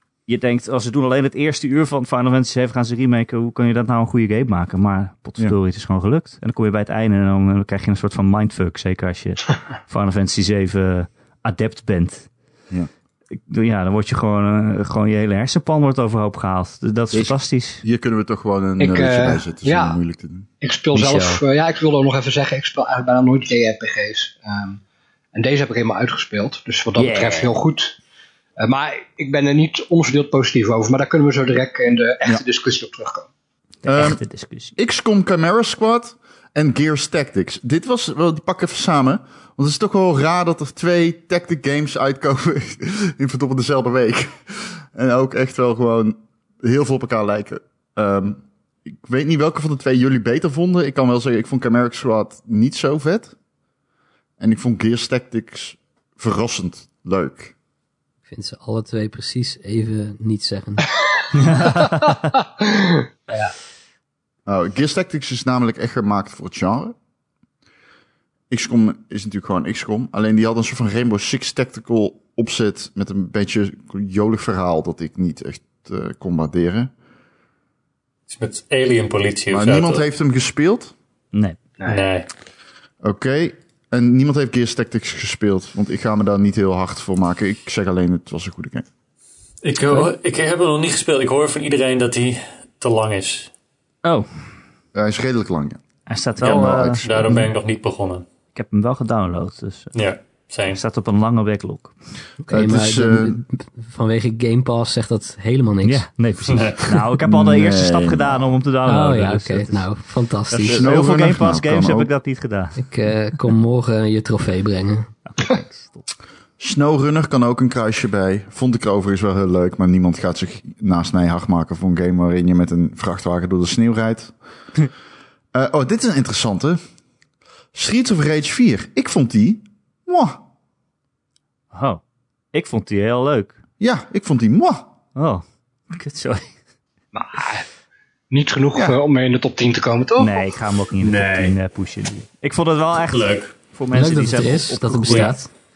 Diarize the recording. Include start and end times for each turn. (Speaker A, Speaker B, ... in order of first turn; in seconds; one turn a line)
Speaker A: 0.2-12.3
Speaker A: 13.3-17.8
Speaker B: 17.1-20.5
Speaker C: 18.8-20.0
Speaker C: 20.6-24.8
Speaker A: 20.9-21.4
Speaker C: 25.3-28.0
Speaker A: 26.9-27.5
Speaker C: 28.6-33.3
Speaker A: 33.8-34.8
Speaker B: 33.9-34.2
Speaker B: 34.8-53.3
Speaker B: 54.4-57.5
Speaker D: 58.3-60.9
Speaker A: 61.4-62.3
Speaker C: 62.8-63.5
Speaker B: 64.5-66.9
Speaker B: 68.5-76.9
Speaker E: 78.3-80.0
Speaker B: 79.5-80.9
Speaker A: 81.3-81.6
Speaker E: 81.8-82.3
Speaker B: 83.0-88.8
Speaker E: 89.6-93.5
Speaker A: 94.0-94.3
Speaker B: 94.9-95.8
Speaker A: 96.1-97.4
Speaker B: 96.4-97.4
Speaker E: 96.4-98.2
Speaker A: 98.5-99.9
Speaker E: 99.9-100.8
Speaker A: 100.7-101.9
Speaker D: 102.4-106.0
Speaker B: 102.5-103.4
Speaker A: 105.8-109.8
Speaker E: 106.5-106.9
Speaker B: 107.2-108.5
Speaker D: 108.8-110.8
Speaker A: 110.5-112.8
Speaker B: 110.7-112.1
Speaker D: 112.8-115.1
Speaker A: 115.2-116.1
Speaker B: 116.6-124.3
Speaker B: 125.5-126.8
Speaker B: 127.7-130.4
Speaker A: 131.7-132.0
Speaker A: 132.5-133.6
Speaker B: 133.8-134.9
Speaker A: 135.2-136.5
Speaker C: 137.1-137.6
Speaker C: 138.3-140.4
Speaker B: 138.7-139.0
Speaker A: 140.2-145.4
Speaker E: 141.0-141.5
Speaker E: 143.1-143.6
Speaker D: 143.9-145.5
Speaker E: 145.1-145.3